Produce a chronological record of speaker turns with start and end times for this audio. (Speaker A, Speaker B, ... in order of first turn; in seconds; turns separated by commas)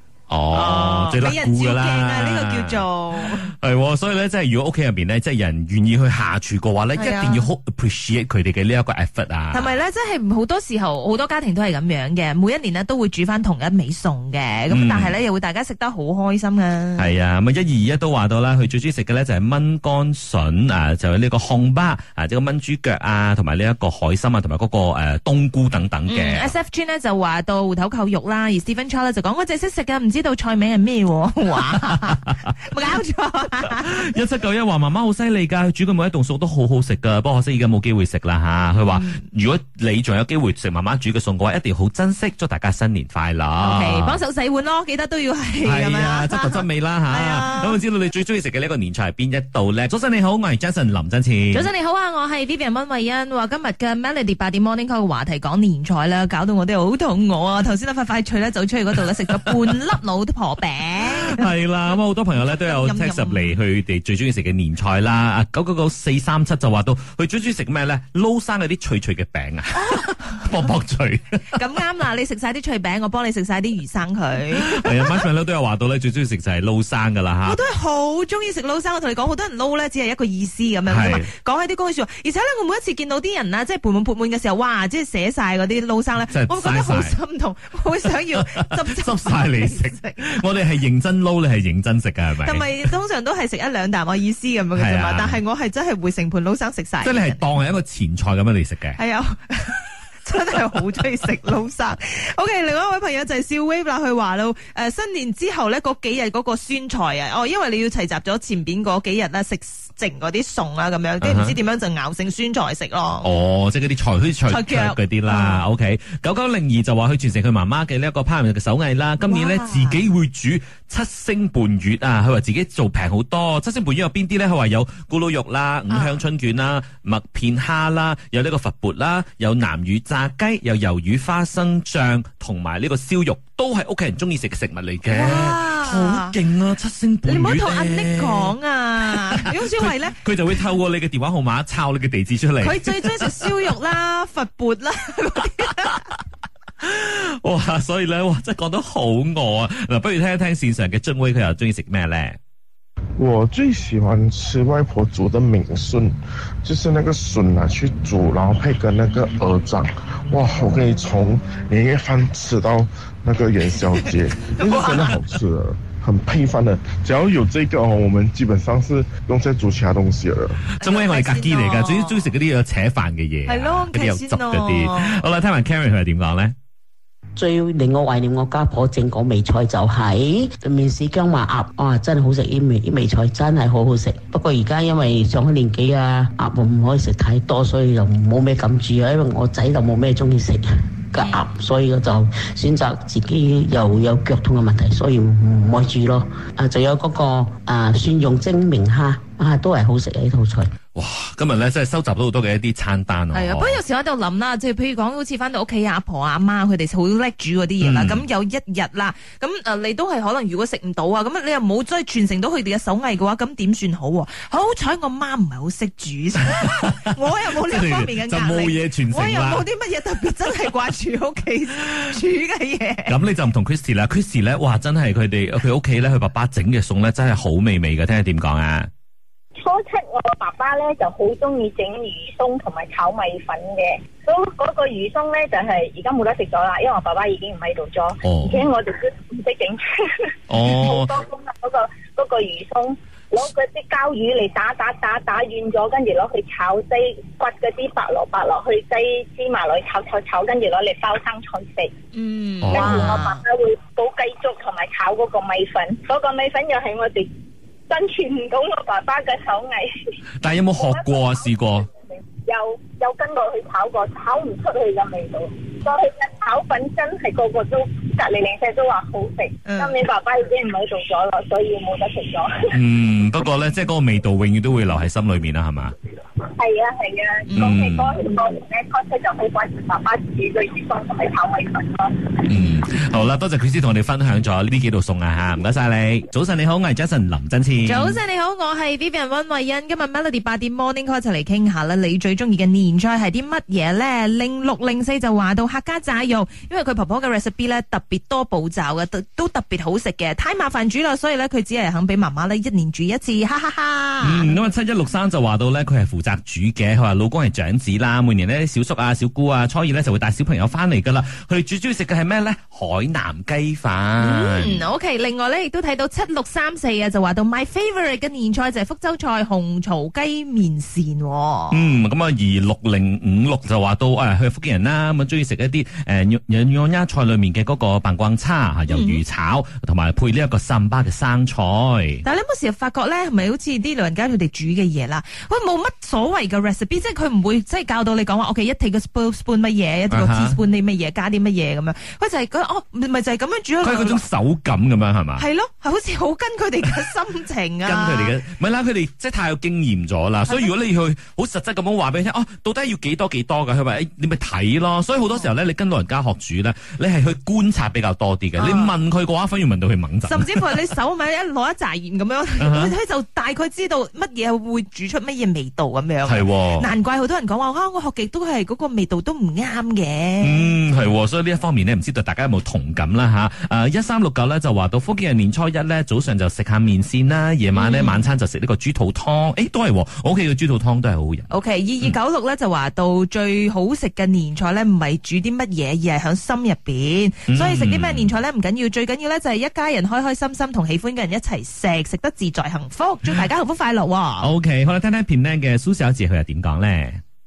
Speaker A: 0.3-9.7, Speaker B: 0.5-3.5, Speaker B: 7.0-7.5, Speaker B: 9.5-17.1, Speaker A: 14.7-15.2, Speaker A: 17.0-26.5, Speaker B: 26.1-33.9, Speaker A: 33.7-44.2, Speaker B: 38.8-39.2, Speaker B: 43.6-47.8, Speaker A: 45.6-51.7, Speaker B: 51.5-61.5, Speaker A: 61.2-71.4, Speaker B: 62.4-63.6, Speaker B: 71.5-75.2, Speaker A: 74.6-77.6, Speaker B: 77.4-90.4, Speaker A: 80.9-81.3, Speaker A: 86.3-87.2, Speaker A: 88.5-92.7, Speaker B: 92.4-97.4, Speaker A: 94.7-95.4, Speaker A: 97.0-99.0, Speaker B: 99.0-113.3, Speaker A: 111.2-111.5, Speaker A: 113.2-138.5, Speaker B: 114.5-115.6, Speaker B: 119.2-120.0, Speaker B: 125.9-126.2, Speaker B: 135.1-136.3, Speaker B: 137.2-140.2, Speaker A: 139.1-143.5, Speaker B: 142.6-146.1, Speaker A: 146.8-152.4, Speaker C: 153.2-170.6, Speaker B: 163.9-165.1, Speaker A: 170.8-176.5, Speaker B: 170.8-172.3, Speaker B: 173.4-175.2, Speaker D: 177.4-200.7, Speaker A: 200.9-203.8, Speaker B: 203.3-223.1, Speaker A: 207.8-208.2, Speaker A: 217.6-219.6, Speaker A: 223.1-228.9, Speaker E: 229.6-239.8, Speaker A: 238.2-238.7, Speaker A: 240.5-241.1, Speaker E: 240.6-251.9, Speaker B: 252.1-253.4, Speaker A: 252.6-253.2, Speaker E: 252.7-257.3, Speaker E: 257.9-259.9, Speaker A: 260.4-261.9, Speaker E: 260.7-261.5, Speaker E: 262.2-272.6, Speaker B: 269.6-270.0, Speaker A: 272.7-275.9, Speaker E: 276.6-282.4, Speaker B: 277.5-277.7, Speaker A: 277.6-278.2, Speaker A: 282.5-288.2, Speaker B: 287.8-304.5, Speaker A: 304.2-314.8, Speaker B: 314.2-321.8, Speaker A: 321.7-332.2, Speaker B: 328.9-329.2, Speaker B: 332.2-344.2, Speaker A: 340.1-340.6, Speaker A: 343.8-345.4, Speaker B: 345.4-348.3, Speaker A: 347.8-360.7, Speaker B: 358.6-358.9, Speaker B: 360.2-370.7, Speaker A: 362.6-362.9, Speaker A: 366.2-366.9, Speaker A: 370.4-381.5, Speaker B: 377.7-378.2, Speaker B: 381.5-394.5, Speaker A: 387.5-388.4, Speaker A: 394.4-397.2